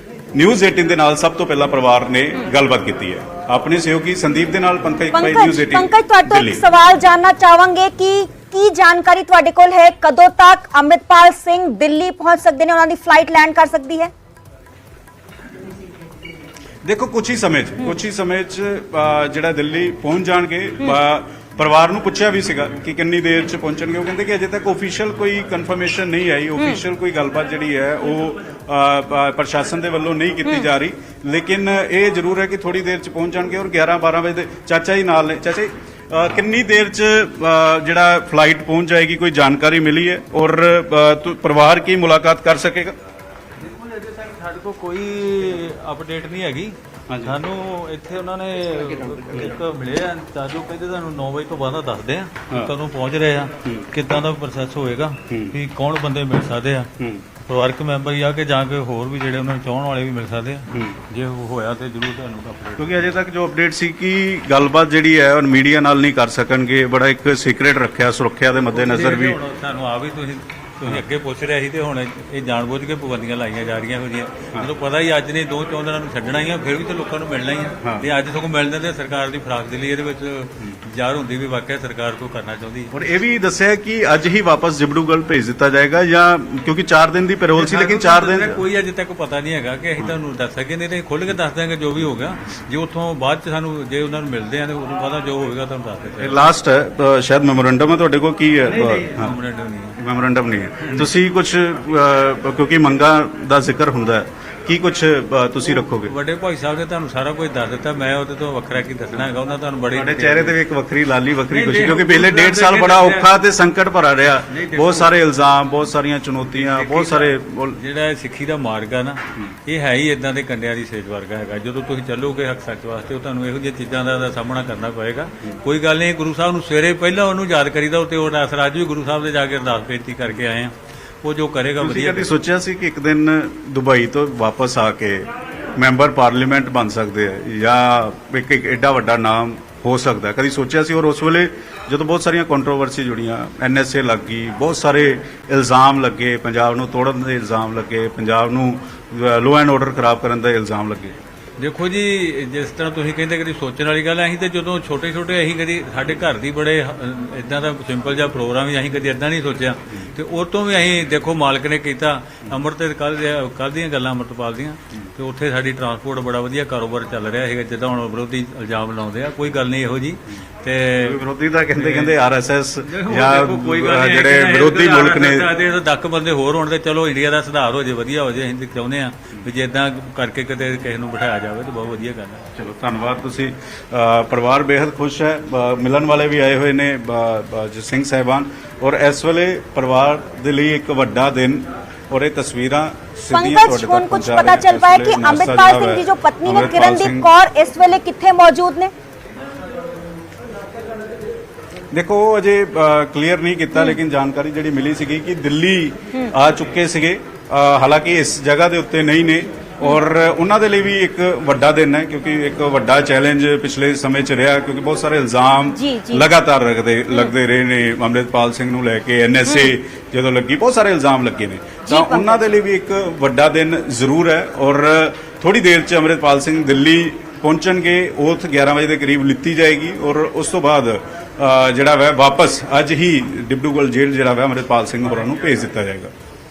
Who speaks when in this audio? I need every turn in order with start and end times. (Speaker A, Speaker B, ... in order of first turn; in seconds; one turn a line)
Speaker A: 0.3-6.6
Speaker B: 5.1-14.1
Speaker A: 16.8-43.0
Speaker B: 30.4-30.7
Speaker C: 43.6-56.9
Speaker A: 47.1-47.4
Speaker A: 55.3-55.5
Speaker A: 57.0-57.2
Speaker C: 57.4-63.1
Speaker A: 60.7-61.0
Speaker A: 62.8-69.4
Speaker C: 68.7-82.9
Speaker A: 82.9-88.6
Speaker C: 87.5-96.4
Speaker A: 96.2-99.3
Speaker C: 98.7-100.0
Speaker A: 100.0-106.1
Speaker C: 100.8-101.1
Speaker C: 106.0-110.6
Speaker A: 109.9-117.8
Speaker C: 111.5-113.3
Speaker C: 114.5-115.1
Speaker C: 116.5-132.3
Speaker A: 131.8-151.1
Speaker C: 151.6-171.2
Speaker A: 171.0-175.5
Speaker C: 171.7-172.2
Speaker C: 172.8-182.4
Speaker A: 182.5-197.3
Speaker B: 193.3-198.9
Speaker A: 201.9-236.1
Speaker B: 215.7-216.3
Speaker B: 219.4-219.7
Speaker B: 221.9-222.4